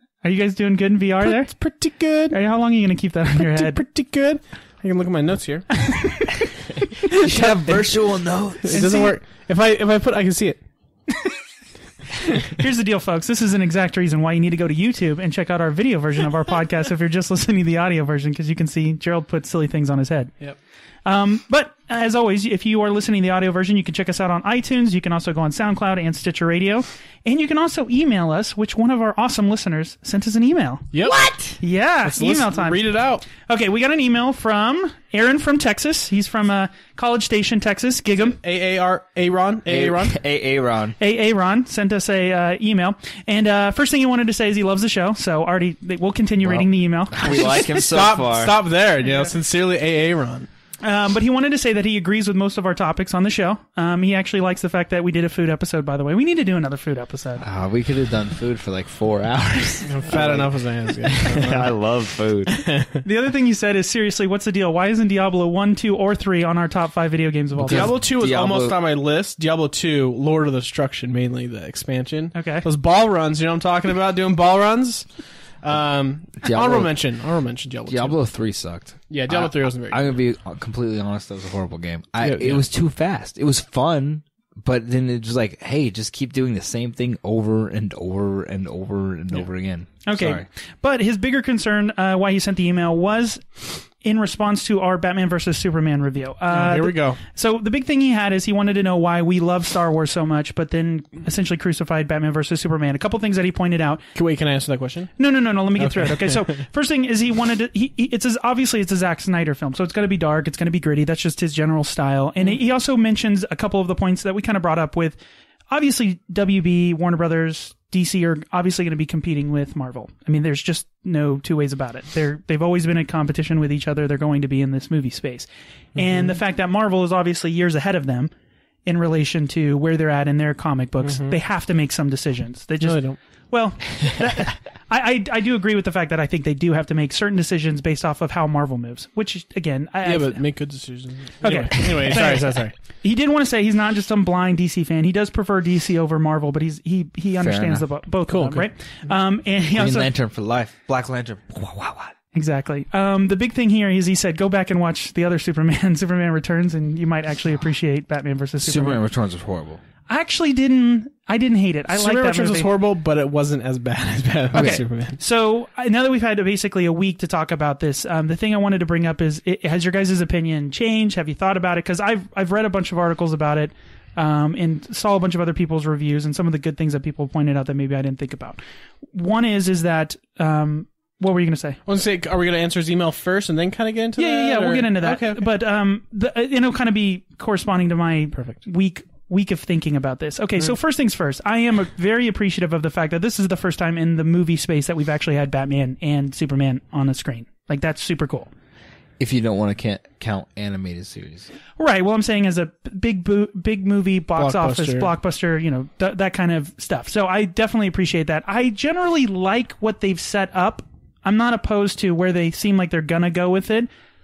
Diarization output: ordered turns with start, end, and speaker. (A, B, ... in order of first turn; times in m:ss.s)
0:00.2-0:01.5 A
0:01.2-0:02.4 B
0:02.3-0:03.8 A
0:03.4-0:06.1 B
0:05.9-0:06.3 A
0:07.1-0:07.8 B
0:07.1-0:08.9 C
0:08.6-0:10.6 B
0:08.7-0:09.2 A
0:12.4-0:20.3 A
0:21.0-0:30.9 A
0:30.9-0:31.4 B
0:31.4-0:38.4 A
0:32.0-0:33.2 B
0:38.3-0:40.2 B
0:39.6-0:41.0 C
0:41.0-0:47.8 A
0:46.4-0:48.6 C
0:47.7-0:50.5 B
0:50.8-0:57.4 A
0:57.4-1:02.5 C
0:59.8-1:01.8 B
1:02.5-1:03.0 B
1:03.0-1:08.0 A
1:07.6-1:08.8 C
1:07.6-1:18.3 B
1:12.3-1:12.6 A
1:16.4-1:17.0 C
1:17.8-1:30.4 C
1:19.1-1:20.1 B
1:22.2-1:22.6 B
1:30.0-1:44.0 A
1:36.5-1:37.2 B
1:44.1-1:46.6 B
1:45.2-1:55.2 A
1:55.7-2:08.3 A
2:06.0-2:06.4 B
2:08.8-2:20.5 A
2:11.0-2:11.4 B
2:12.8-2:13.2 B
2:20.0-2:22.7 B
2:21.4-2:30.1 A
2:27.4-2:27.8 C
2:28.3-2:28.7 B
2:29.7-2:32.1 C
2:32.3-2:39.0 A
2:38.6-2:39.8 C
2:40.1-2:42.7 A
2:41.9-2:45.2 B
2:44.5-2:44.8 C
2:44.5-2:58.6 A
2:59.1-3:01.8 A
3:01.8-3:05.4 B
3:04.2-3:18.5 A
3:19.2-3:21.5 C
3:21.8-3:33.9 A
3:24.4-3:25.1 B